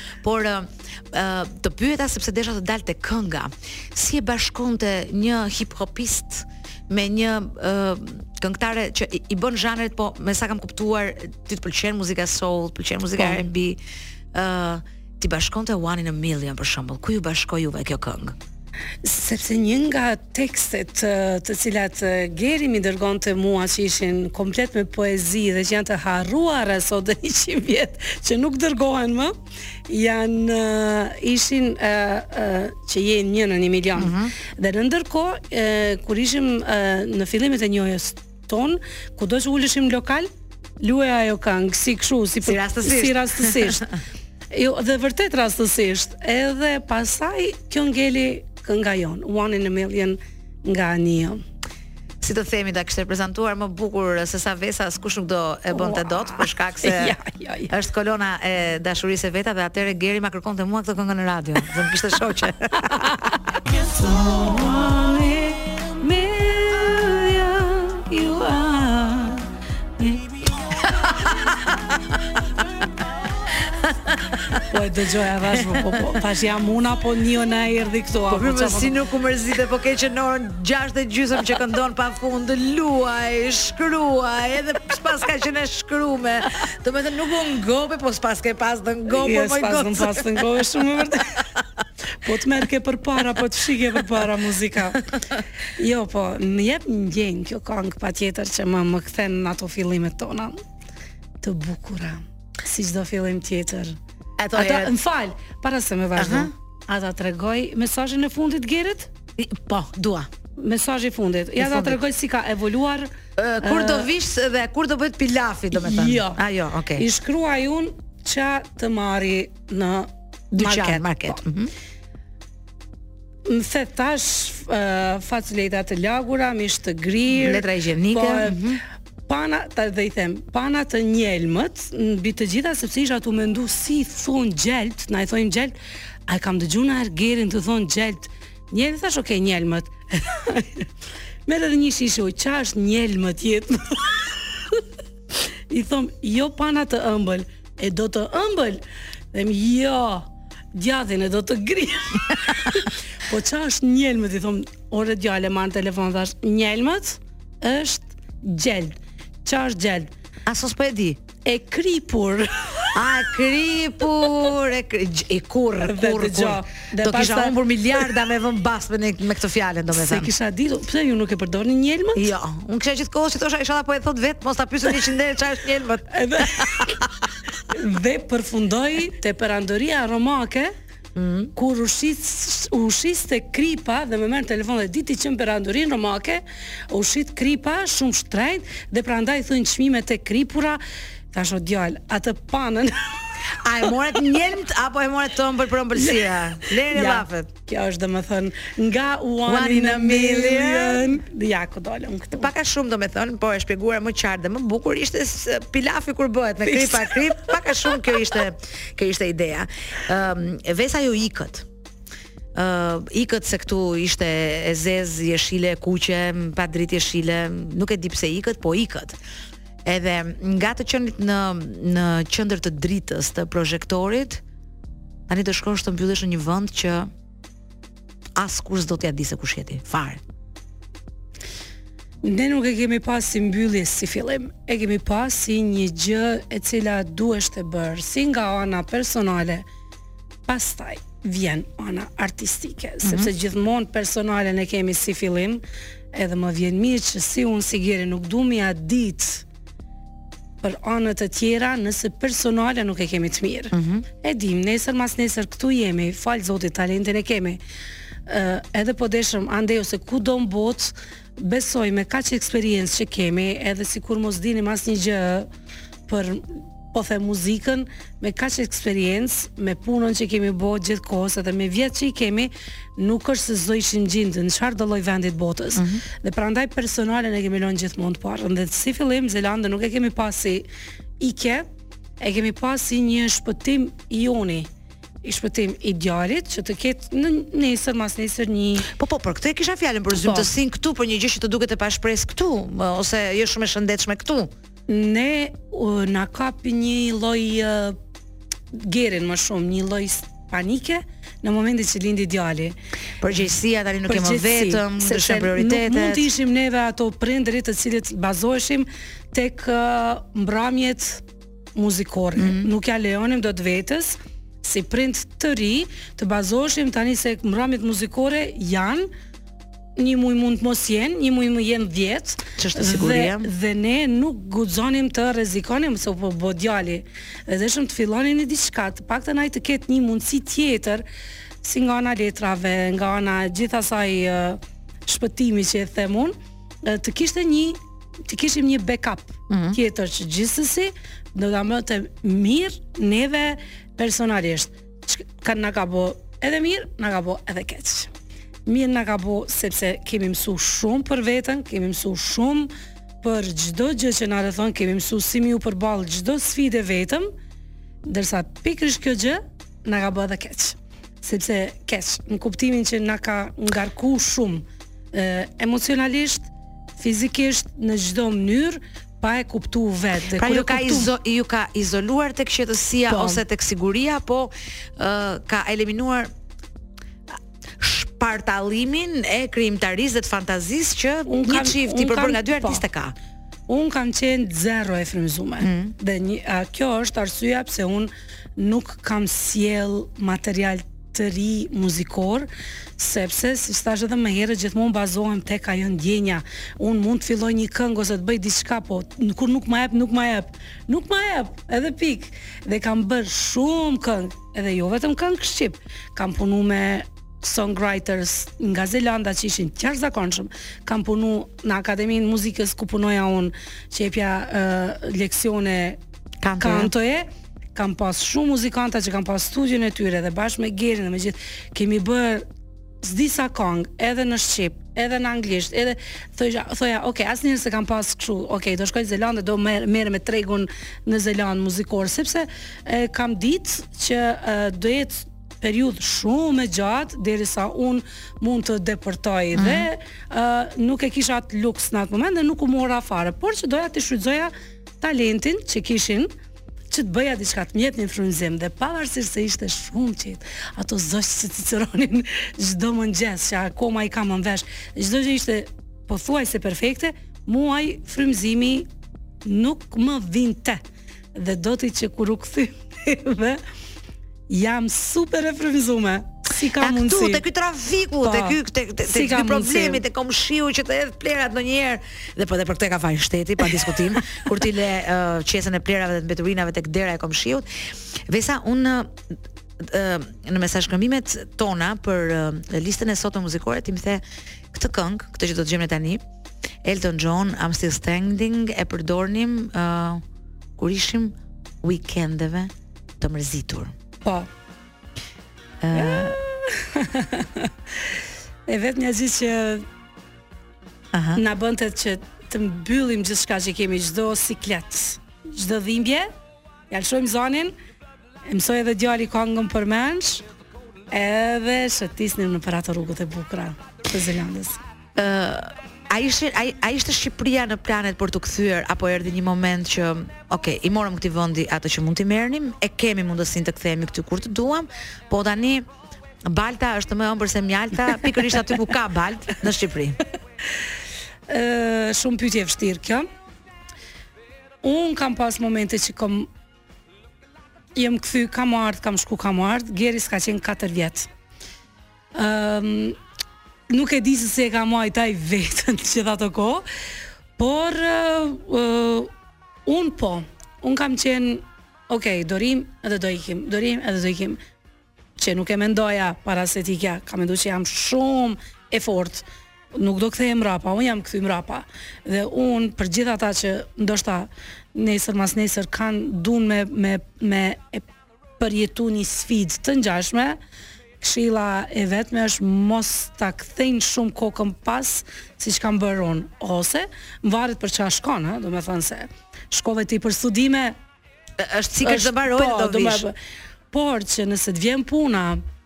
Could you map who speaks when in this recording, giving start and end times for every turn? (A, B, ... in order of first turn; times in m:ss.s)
0:00.2-0:13.8 A
0:13.2-0:13.4 B
0:14.3-0:18.4 A
0:19.0-0:29.3 B
0:29.9-0:40.3 B
0:34.0-0:34.3 A
0:40.8-0:43.9 B
0:42.4-0:43.8 A
0:44.5-0:51.4 B
0:52.2-0:57.2 A
0:55.7-0:57.7 B
0:57.7-1:03.2 A
1:02.9-1:09.4 B
1:10.0-1:10.4 B
1:11.1-1:12.0 A
1:13.6-1:14.6 A
1:14.7-1:18.9 B
1:15.5-1:16.1 A
1:18.3-1:30.6 A
1:29.1-1:31.4 B
1:32.2-1:35.1 B
1:35.8-1:40.6 B
1:41.4-1:44.0 B
1:44.4-1:44.9 A
1:44.5-1:49.1 B
1:46.2-1:46.5 A
1:49.4-1:50.3 A
1:50.6-1:54.1 B
1:51.6-1:52.0 A
1:53.4-1:57.0 A
1:55.7-1:56.4 B
1:56.9-2:01.4 B
2:00.6-2:01.7 A
2:03.4-2:08.8 B
2:07.3-2:08.8 A
2:09.3-2:15.7 B
2:16.3-2:20.9 B
2:21.4-2:24.2 B
2:25.7-2:40.1 B
2:40.4-2:41.2 A
2:41.4-2:42.9 B
2:42.9-2:50.3 A
2:45.8-2:48.1 B
2:49.9-2:52.3 B
2:52.1-2:57.1 A
2:56.1-2:56.9 B
2:57.7-3:00.7 B
3:01.1-3:01.5 A
3:01.5-3:10.8 B
3:11.3-3:13.1 B
3:13.6-3:17.5 A
3:16.0-3:22.5 B
3:19.5-3:21.2 A
3:22.3-3:31.6 A
3:26.6-3:27.5 B
3:32.5-3:39.2 A
3:39.8-3:44.4 A
3:45.3-3:47.1 A
3:48.4-3:50.2 A
3:52.2-3:59.6 B
4:00.5-4:05.6 B
4:03.0-4:03.3 A
4:06.1-4:09.4 B
4:10.6-4:17.6 B
4:13.7-4:14.0 A
4:18.3-4:25.5 B
4:26.1-4:40.7 B
4:35.8-4:36.0 A
4:41.2-4:41.7 B
4:42.2-4:44.7 B
4:45.2-4:48.9 B
4:48.9-4:54.5 A
4:50.2-4:50.5 B
4:54.9-4:58.0 B
4:58.7-5:02.8 B
5:03.2-5:06.2 A
5:04.1-5:11.2 B
5:11.7-5:19.1 B
5:12.4-5:12.7 A
5:20.0-5:31.0 B
5:22.6-5:23.5 A
5:31.6-5:48.1 B
5:39.5-5:39.8 A
5:48.6-5:57.3 B
5:58.0-6:11.1 B
6:10.4-6:16.3 A
6:13.1-6:13.4 B
6:17.8-6:23.1 A
6:21.3-6:22.8 B
6:23.7-6:56.0 B
6:25.6-6:25.9 A
6:56.4-6:56.9 A
6:56.6-7:02.4 B
7:03.0-7:26.3 B
7:19.5-7:19.9 A
7:26.9-7:38.9 B
7:39.4-7:40.8 B
7:41.3-7:43.6 B
7:44.5-7:47.4 B
7:46.8-7:57.6 A
7:48.2-7:50.0 B
7:58.3-7:59.1 A
7:59.8-8:06.2 A
8:06.8-8:10.2 A
8:10.8-8:13.9 A
8:14.2-8:14.5 B
8:15.8-8:16.4 A
8:15.9-8:17.7 B
8:18.7-8:19.8 B
8:21.1-8:21.4 A
8:21.3-8:26.3 B
8:26.9-8:27.7 B
8:28.5-8:30.4 B
8:31.1-8:34.8 B
8:35.2-8:45.8 A
8:46.4-8:50.2 A
8:51.5-8:53.3 B
8:54.8-8:56.5 B
8:57.9-9:01.3 B
9:02.3-9:03.2 B
9:03.9-9:06.9 B
9:07.6-9:09.3 B
9:09.8-9:14.6 B
9:15.4-9:28.1 B
9:28.6-9:30.6 B
9:31.2-9:41.0 B
9:41.6-9:43.2 A
9:42.0-9:43.3 B
9:43.9-9:45.6 B